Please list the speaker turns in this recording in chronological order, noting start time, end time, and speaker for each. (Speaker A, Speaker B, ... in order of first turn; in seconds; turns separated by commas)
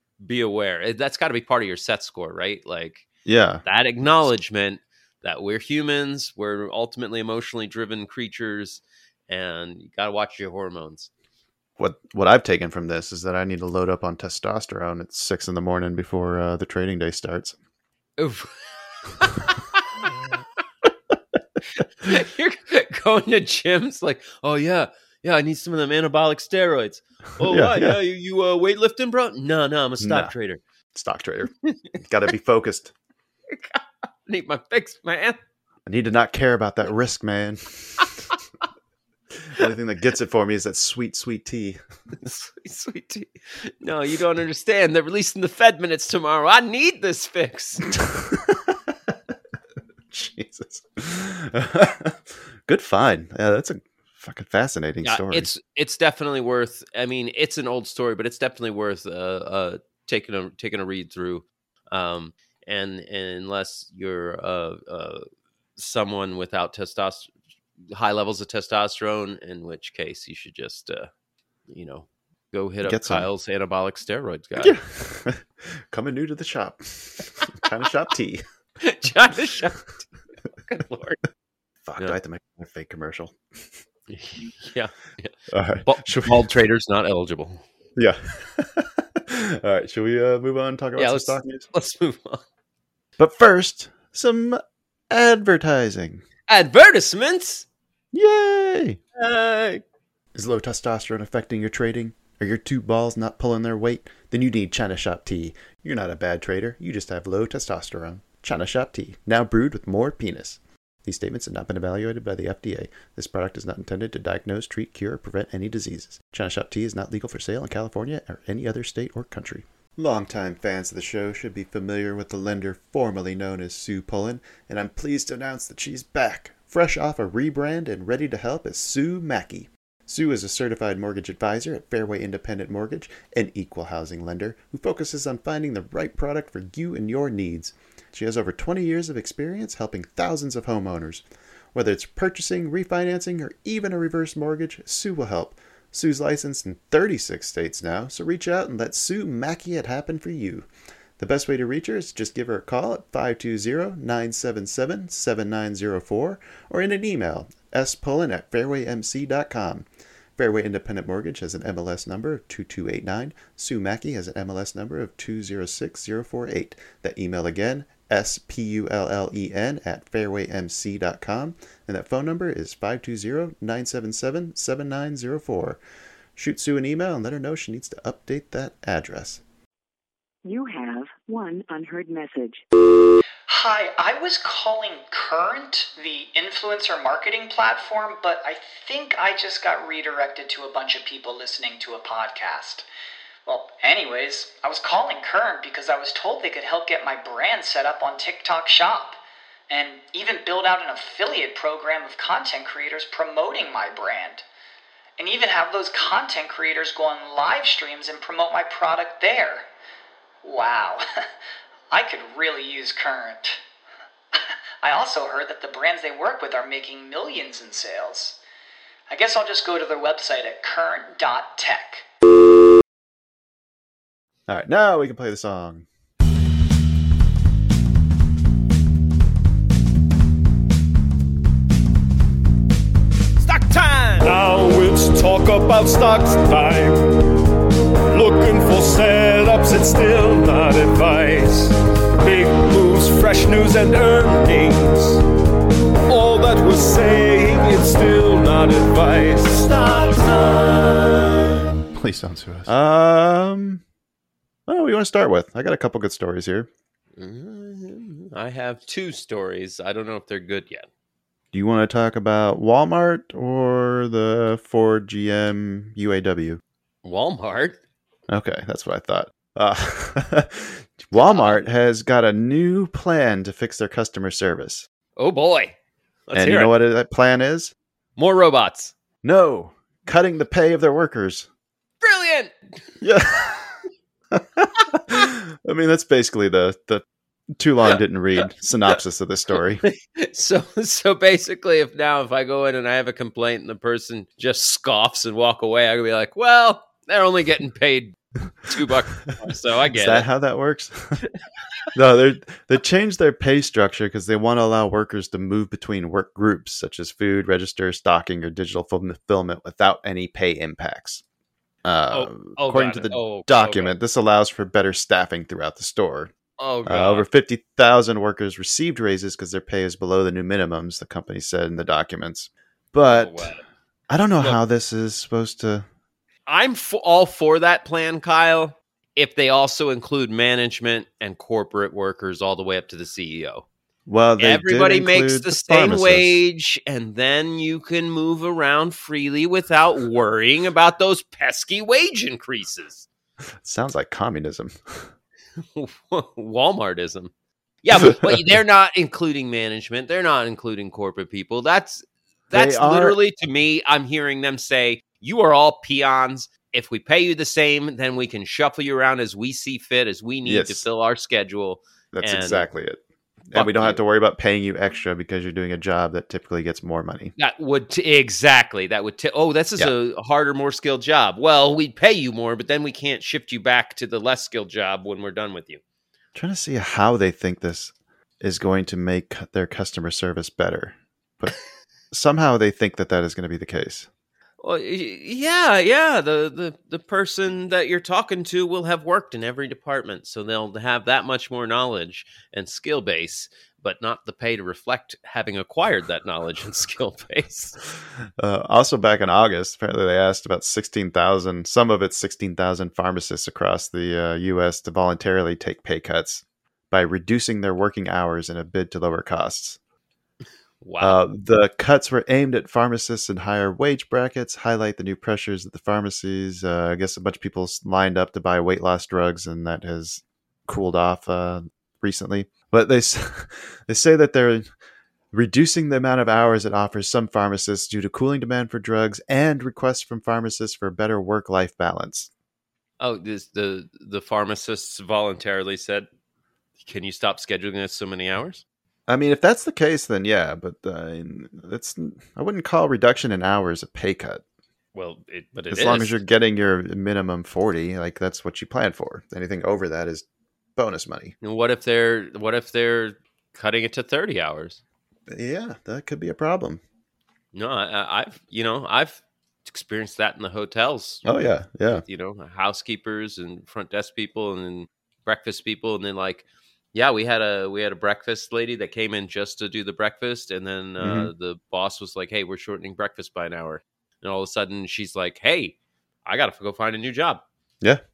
Speaker A: 0.2-3.1, Speaker B: 3.3-3.6, Speaker A: 3.6-11.1, Speaker B: 11.8-17.6, Speaker A: 18.2-20.1, Speaker A: 21.8-30.6, Speaker B: 27.4-28.0, Speaker B: 30.0-30.3, Speaker B: 31.0-32.9, Speaker A: 33.5-35.4, Speaker B: 35.9-38.1, Speaker B: 39.5-41.8, Speaker A: 42.2-47.9, Speaker B: 48.0-48.7, Speaker B: 50.1-55.5, Speaker A: 55.0-65.2, Speaker A: 65.8-67.3, Speaker A: 67.9-71.1, Speaker A: 71.7-74.8, Speaker B: 72.8-73.3, Speaker B: 74.6-78.4, Speaker A: 78.8-80.0, Speaker A: 80.6-81.2, Speaker B: 81.9-83.3, Speaker A: 84.1-85.3, Speaker B: 85.5-86.5, Speaker A: 85.9-87.6, Speaker B: 88.0-91.7, Speaker A: 91.0-92.4, Speaker B: 93.2-96.2, Speaker A: 96.5-97.7, Speaker B: 98.1-99.0, Speaker A: 99.2-99.8, Speaker B: 100.3-141.2, Speaker B: 141.7-150.7, Speaker B: 151.2-159.8, Speaker B: 160.4-175.8, Speaker B: 176.4-179.4, Speaker C: 180.4-182.6, Speaker D: 183.5-192.9, Speaker D: 193.5-204.4, Speaker D: 205.2-209.7, Speaker D: 210.4-211.1, Speaker D: 211.9-213.6, Speaker D: 214.8-218.4, Speaker D: 219.1-222.1, Speaker B: 224.5-225.9, Speaker A: 233.5-234.1, Speaker E: 233.6-237.2, Speaker E: 238.1-245.2, Speaker E: 246.1-251.6, Speaker B: 251.9-253.8, Speaker B: 254.7-256.7, Speaker A: 257.2-260.9, Speaker B: 261.5-266.6, Speaker A: 267.0-267.8, Speaker B: 268.3-274.9, Speaker A: 271.2-271.6, Speaker A: 275.2-275.8, Speaker A: 276.3-276.7, Speaker B: 276.3-277.7, Speaker A: 278.2-278.9, Speaker B: 279.2-281.5, Speaker A: 282.0-282.6, Speaker B: 283.0-283.7, Speaker B: 284.3-287.0, Speaker B: 287.6-289.8, Speaker A: 289.9-298.2, Speaker A: 298.7-300.3, Speaker B: 299.9-301.2, Speaker B: 301.9-311.2, Speaker B: 311.9-316.3, Speaker A: 312.1-313.9, Speaker A: 316.6-317.3, Speaker B: 316.8-323.6, Speaker A: 323.1-323.6, Speaker B: 324.1-325.9, Speaker A: 326.5-333.7, Speaker B: 334.1-336.4, Speaker A: 334.4-343.1, Speaker B: 343.6-345.1, Speaker A: 345.8-347.3, Speaker A: 347.8-362.7, Speaker B: 352.5-353.2, Speaker B: 360.4-360.9, Speaker B: 362.1-363.0, Speaker B: 363.5-367.3, Speaker A: 363.5-364.0, Speaker A: 367.4-375.8, Speaker B: 376.4-381.6, Speaker B: 382.1-384.1, Speaker A: 384.6-397.8, Speaker B: 398.4-409.8, Speaker A: 410.8-411.2, Speaker B: 411.0-424.7, Speaker B: 425.3-432.3, Speaker A: 433.0-436.1, Speaker A: 436.8-438.6, Speaker B: 439.1-444.4, Speaker A: 444.9-446.2, Speaker B: 445.7-450.2, Speaker B: 450.8-451.3, Speaker A: 451.4-454.8, Speaker B: 455.3-456.8, Speaker A: 457.5-461.2, Speaker B: 461.2-462.1, Speaker A: 462.1-477.4, Speaker B: 471.0-471.3